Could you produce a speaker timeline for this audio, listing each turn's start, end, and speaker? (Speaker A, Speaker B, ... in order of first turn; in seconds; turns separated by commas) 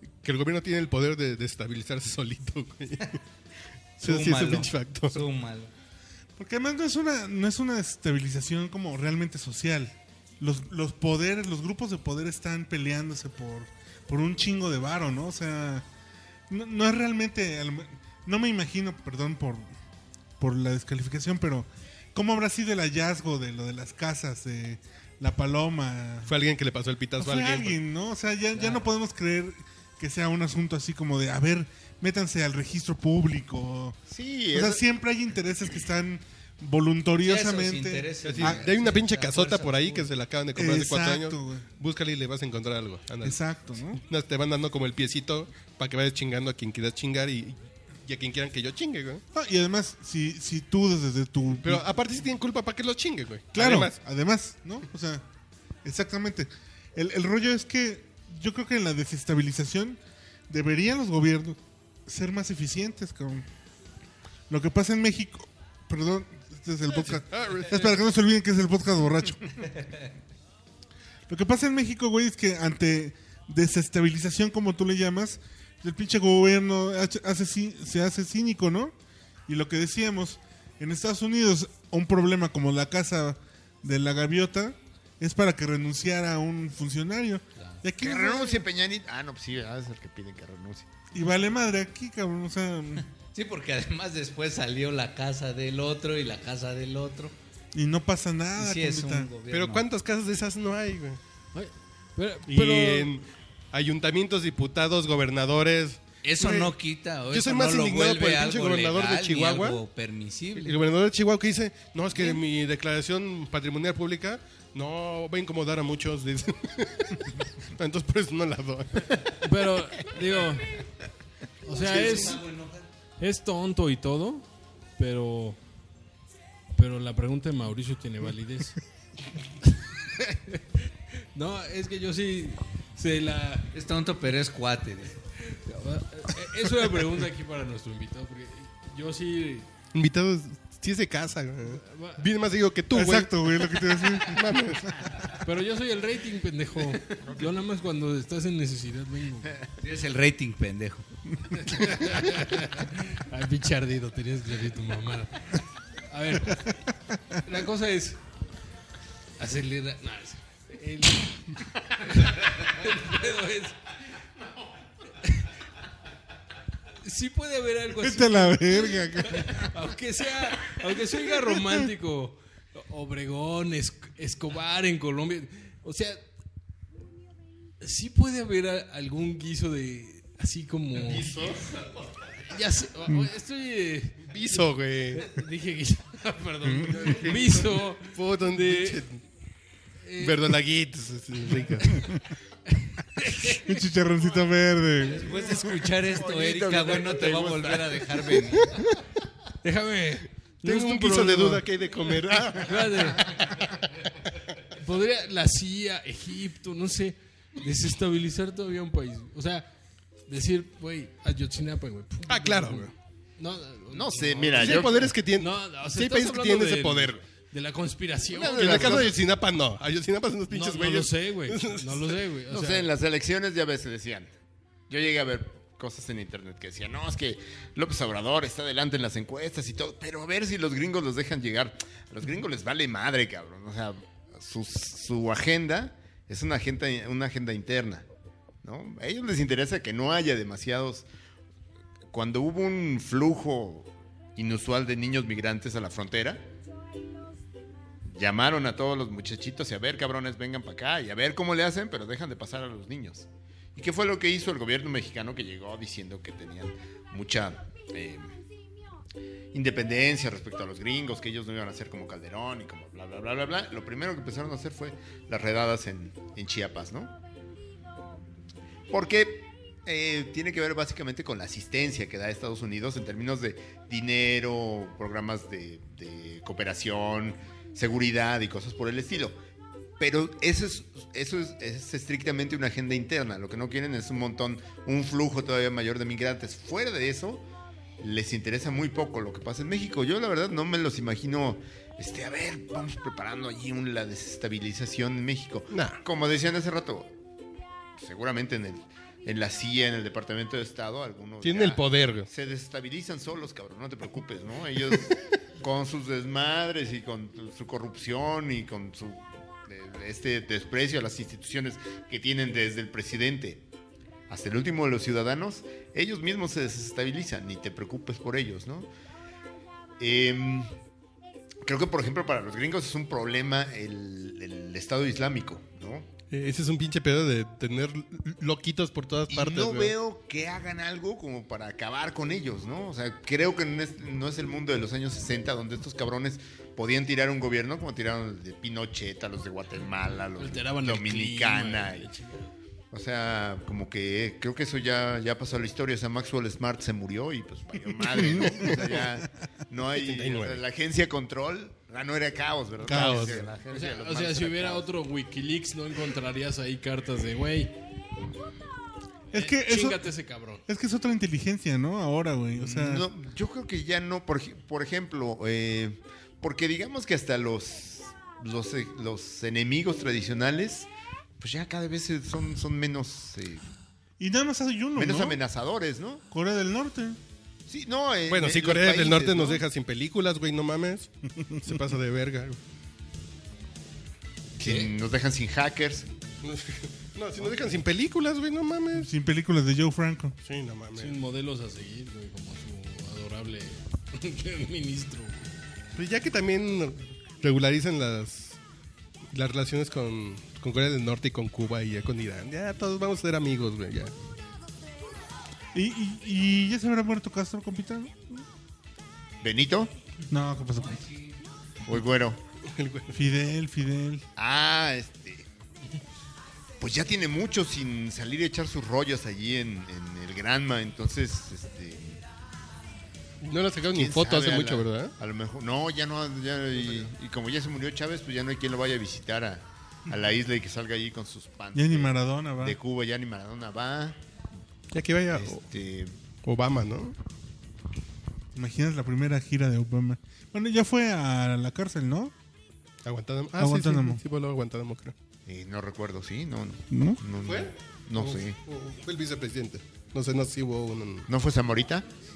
Speaker A: 0.2-3.2, Speaker A: 4.0-5.2, Speaker B: 4.0-5.7, Speaker C: 6.4-15.9, Speaker C: 16.5-19.7, Speaker C: 20.4-26.3, Speaker A: 26.2-27.8, Speaker C: 27.2-34.0, Speaker B: 28.6-28.9, Speaker D: 34.1-34.8, Speaker C: 34.5-38.7, Speaker B: 37.2-40.1, Speaker A: 38.2-43.4, Speaker C: 40.5-41.7, Speaker C: 43.2-44.0, Speaker A: 43.9-49.2, Speaker C: 49.3-51.8, Speaker A: 51.6-54.0, Speaker C: 53.5-55.3, Speaker C: 55.8-63.5, Speaker C: 64.5-69.7, Speaker A: 67.0-67.9, Speaker C: 71.3-79.0, Speaker C: 79.5-88.7, Speaker D: 88.0-90.9, Speaker C: 91.1-93.0, Speaker B: 93.3-97.3, Speaker C: 97.7-99.3, Speaker B: 98.6-99.8, Speaker A: 99.5-101.2, Speaker E: 101.5-103.1, Speaker A: 102.5-106.7, Speaker B: 106.2-110.8, Speaker A: 107.3-109.8, Speaker A: 110.6-119.2, Speaker E: 119.3-120.8, Speaker E: 121.6-122.4, Speaker B: 121.7-122.8, Speaker E: 123.2-125.6, Speaker E: 126.7-128.8, Speaker E: 129.6-133.7, Speaker B: 133.7-135.2, Speaker E: 135.4-139.7, Speaker A: 139.9-145.0, Speaker E: 141.7-142.2, Speaker C: 142.9-144.6, Speaker E: 145.4-149.6, Speaker B: 149.8-151.1, Speaker E: 151.5-156.8, Speaker E: 157.3-158.2, Speaker E: 159.4-163.8, Speaker E: 165.2-165.5, Speaker E: 167.0-176.2, Speaker C: 168.0-169.8, Speaker E: 177.8-181.6, Speaker E: 182.4-189.1, Speaker A: 184.3-185.3, Speaker C: 186.6-187.1, Speaker A: 186.9-189.2, Speaker E: 190.0-190.6, Speaker A: 190.2-192.1, Speaker E: 191.7-192.1, Speaker E: 192.7-193.8, Speaker C: 193.4-195.6, Speaker B: 195.1-198.9, Speaker D: 195.7-198.4, Speaker E: 199.6-201.7, Speaker A: 200.6-203.3, Speaker E: 202.5-203.4, Speaker E: 204.7-209.7, Speaker E: 210.3-219.1, Speaker A: 212.3-212.9, Speaker D: 213.9-215.2, Speaker A: 214.5-217.2, Speaker D: 218.4-219.1, Speaker A: 218.4-222.2, Speaker E: 220.5-222.9, Speaker D: 222.5-224.3, Speaker D: 224.9-238.1, Speaker D: 238.6-241.1, Speaker D: 242.1-246.5, Speaker D: 248.1-258.4, Speaker D: 259.5-267.1, Speaker D: 268.9-279.4, Speaker D: 280.0-287.4, Speaker D: 288.0-297.1, Speaker A: 295.7-296.0, Speaker D: 298.0-313.7, Speaker A: 301.4-302.3, Speaker D: 314.3-318.9, Speaker D: 320.0-320.7, Speaker D: 321.6-326.1, Speaker A: 326.3-329.9, Speaker D: 329.3-342.1, Speaker E: 340.4-342.5, Speaker D: 342.9-354.9, Speaker C: 348.1-349.1, Speaker A: 350.0-350.6, Speaker C: 352.9-353.4, Speaker A: 352.9-353.4, Speaker E: 353.7-357.8, Speaker C: 359.3-360.1, Speaker E: 359.3-360.6, Speaker C: 360.7-363.1, Speaker D: 362.6-373.7, Speaker C: 374.2-375.4, Speaker D: 375.0-376.2, Speaker C: 376.3-377.2, Speaker D: 377.7-379.6, Speaker A: 378.3-382.6, Speaker C: 381.4-381.8, Speaker D: 384.6-386.1, Speaker A: 386.4-389.1, Speaker C: 388.9-390.4, Speaker A: 390.4-391.2, Speaker E: 390.9-395.5, Speaker A: 396.0-398.6, Speaker A: 399.3-404.1, Speaker C: 405.7-408.4, Speaker D: 409.4-409.9, Speaker C: 410.3-411.0, Speaker B: 410.7-411.4, Speaker D: 411.9-412.4, Speaker A: 412.6-413.2, Speaker C: 413.1-414.3, Speaker D: 414.4-415.5, Speaker D: 416.8-422.2, Speaker A: 423.4-425.1, Speaker D: 423.9-434.2, Speaker C: 431.8-432.8, Speaker A: 434.9-435.6, Speaker D: 435.3-436.1, Speaker A: 436.4-437.2, Speaker C: 438.6-442.3, Speaker A: 443.1-445.1, Speaker C: 443.6-444.2, Speaker D: 445.5-448.6, Speaker C: 446.9-447.2, Speaker A: 447.4-451.3, Speaker D: 451.3-452.1